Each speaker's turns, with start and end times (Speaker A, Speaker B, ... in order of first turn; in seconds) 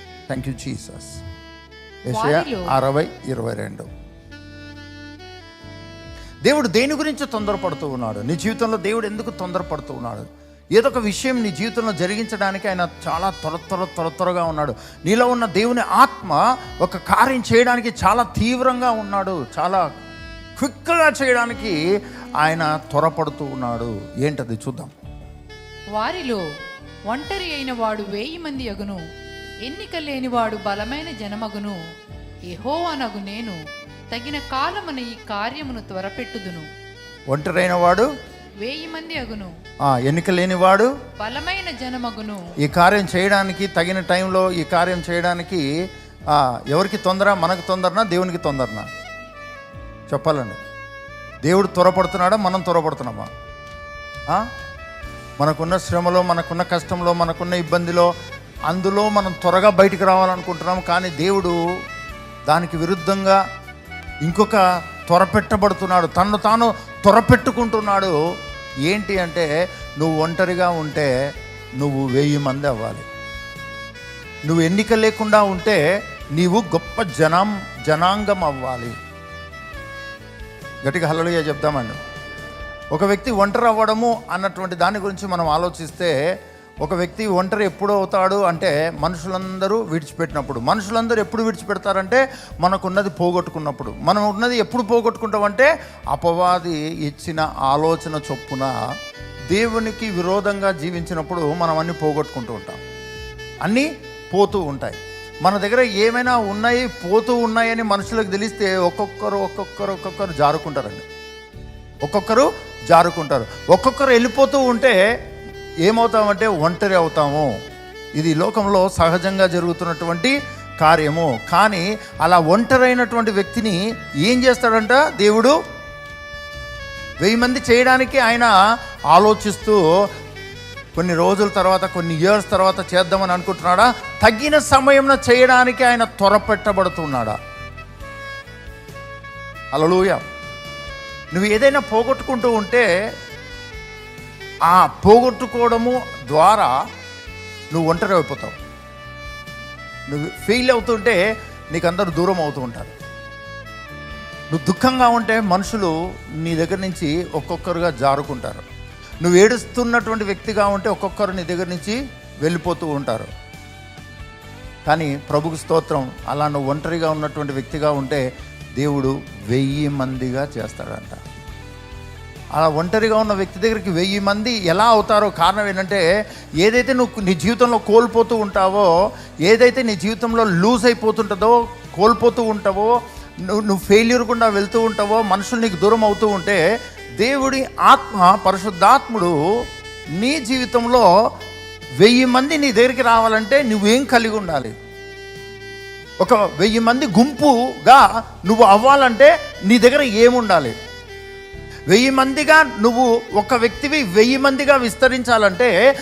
Speaker A: 0.3-1.2, 2.1-3.9, 6.4-19.9, 20.6-21.8, 22.4-24.9, 37.3-38.1, 39.9-40.9, 42.6-45.6, 46.3-48.9, 50.1-50.6, 51.4-53.3, 55.4-58.1, 58.7-61.5, 62.5-63.4, 64.2-68.2, 68.9-69.5, 70.0-71.1, 71.8-73.0, 74.5-75.8, 76.3-78.9, 80.8-82.0, 82.9-86.2, 86.8-98.7, 99.5-102.8, 103.6-111.0, 112.0-115.0, 115.8-117.5, 118.2-125.5, 127.2-128.5, 129.1-129.8, 130.9-137.4, 139.7-140.2, 141.3-142.9, 144.7-146.7, 147.7-148.6, 150.1-151.2, 151.7-152.9, 154.5-158.7, 159.2-163.3, 164.9-168.2, 168.8-171.2, 172.6-176.0, 176.6-178.9, 179.4-182.9, 183.4-186.6, 187.2-189.3, 190.2-191.1, 192.0-194.7, 196.2-200.7, 201.9-205.7
Speaker B: 2.1-2.7, 25.9-26.4, 27.1-29.0, 29.6-31.8, 32.5-33.6, 34.1-36.7, 38.6-39.5, 41.2-42.5